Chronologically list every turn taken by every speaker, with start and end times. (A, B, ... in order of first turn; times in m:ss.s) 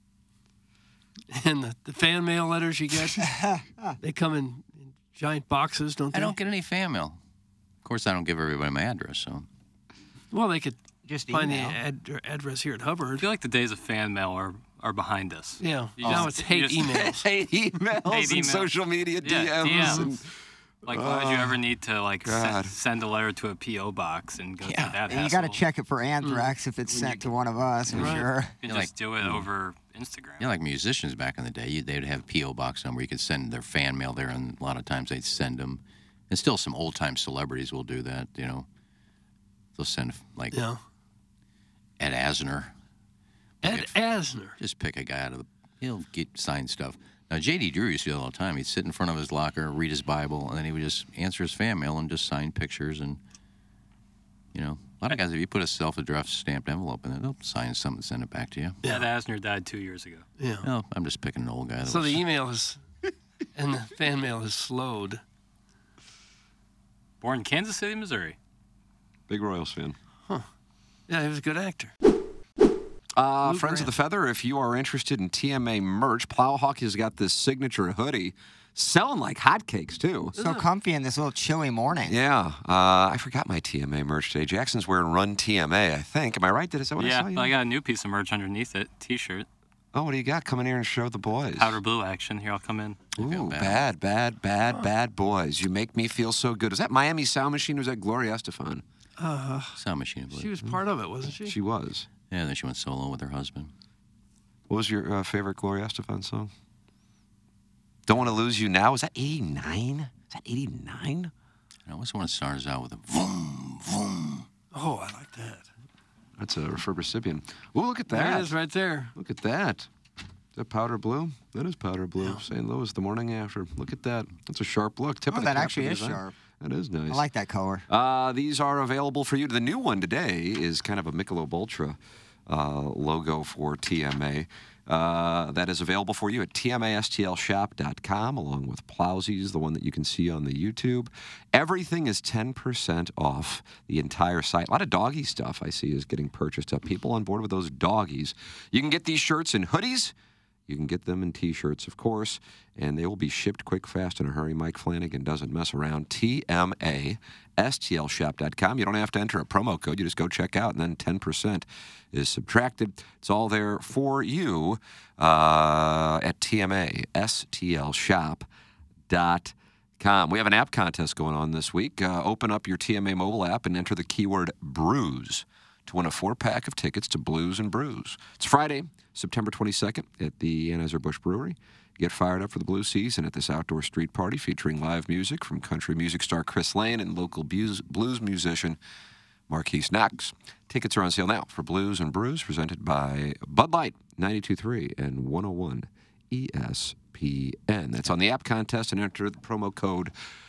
0:01.3-0:03.3 A
0:03.2-0:03.9 B
0:04.0-0:06.3 A
0:06.1-0:07.2 C
0:07.8-0:09.5 C
0:10.3-0:10.8 A
0:11.1-0:11.8 B
0:11.3-0:13.3 A
0:13.2-0:16.9 D
0:15.6-0:17.3 A
0:16.0-0:20.2 E
0:18.0-0:18.7 D
0:19.2-0:20.0 D
0:19.6-0:20.1 A
0:20.9-0:25.6 D
0:20.9-0:21.6 E
0:22.2-0:22.7 E
0:24.6-0:25.0 C
0:25.1-0:28.6 B
0:26.2-0:26.5 A
0:27.9-0:28.2 E
0:27.9-0:28.3 A
0:28.6-0:30.5 D
0:28.6-0:28.9 C
0:30.4-0:38.7 C
0:39.7-0:40.6 C
0:40.5-0:40.8 A
0:42.0-0:42.7 C
0:43.6-0:44.6 A
0:43.6-0:43.9 C
0:44.6-0:53.2 C
0:54.5-0:58.8 C
0:58.8-0:59.1 A
0:58.9-1:00.3 D
1:00.4-1:00.7 A
1:00.6-1:02.2 C
1:01.8-1:02.8 A
1:03.6-1:05.2 A
1:07.2-1:08.4 D
1:09.3-1:10.0 E
1:11.1-1:11.9 A
1:13.2-1:20.3 E
1:13.4-1:13.9 A
1:20.4-1:20.7 A
1:20.4-1:22.1 B
1:22.1-1:27.6 E
1:27.0-1:29.4 D
1:29.9-1:31.8 E
1:31.6-1:33.1 D
1:33.2-1:33.8 C
1:33.2-1:38.8 E
1:39.2-1:39.8 A
1:39.8-1:40.5 C
1:40.3-1:41.6 A
1:41.4-1:42.1 E
1:42.3-1:43.7 C
1:44.7-1:46.5 E
1:48.1-1:51.3 E
1:51.9-1:54.5 C
1:54.7-1:55.7 A
1:56.4-1:58.5 E
1:58.1-1:59.1 A
1:59.1-1:59.9 E
2:00.6-2:07.2 E
2:05.3-2:06.3 B
2:07.1-2:07.9 B
2:07.9-2:30.1 E
2:30.7-2:48.4 E
2:49.1-3:08.8 E
3:09.5-3:20.1 E